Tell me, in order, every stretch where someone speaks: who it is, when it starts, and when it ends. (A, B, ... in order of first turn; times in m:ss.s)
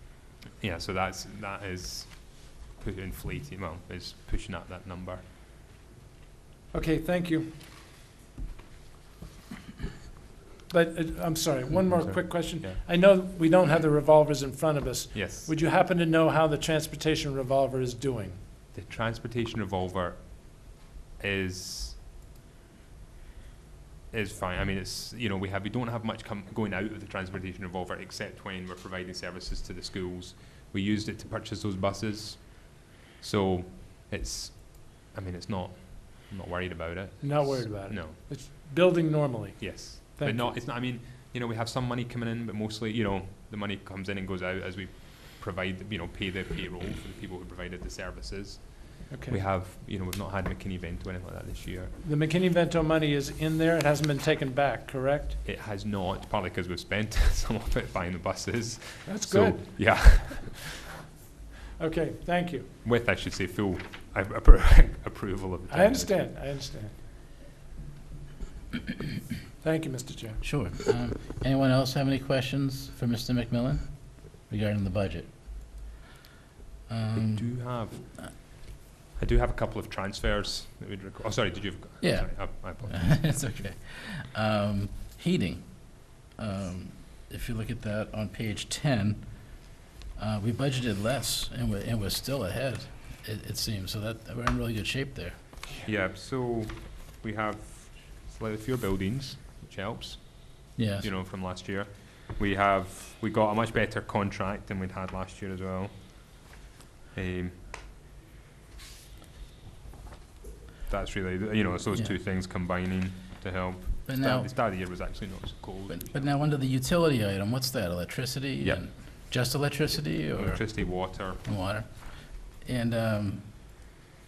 0:00.6-0:05.2 A
0:06.7-0:07.5 B
0:10.7-0:18.4 B
0:11.9-0:12.8 A
0:15.1-0:15.5 A
0:18.7-0:22.0 A
0:24.1-0:38.2 A
0:37.2-0:40.6 B
0:39.6-0:51.9 A
0:49.1-0:49.4 B
0:52.0-0:55.4 B
0:55.4-1:00.8 A
0:59.0-1:00.1 B
1:01.8-1:02.7 B
1:02.8-1:06.2 A
1:05.7-1:07.0 B
1:09.6-1:10.4 B
1:10.4-1:15.3 C
1:16.9-1:18.3 C
1:17.1-1:18.6 A
1:19.2-1:23.4 A
1:22.0-1:29.6 C
1:30.2-1:35.4 C
1:35.8-1:46.4 A
1:40.8-1:41.1 C
1:47.1-1:47.6 A
1:50.9-1:56.3 A
1:51.9-1:52.2 C
1:54.1-1:55.0 C
1:55.9-2:03.8 C
2:00.3-2:01.4 A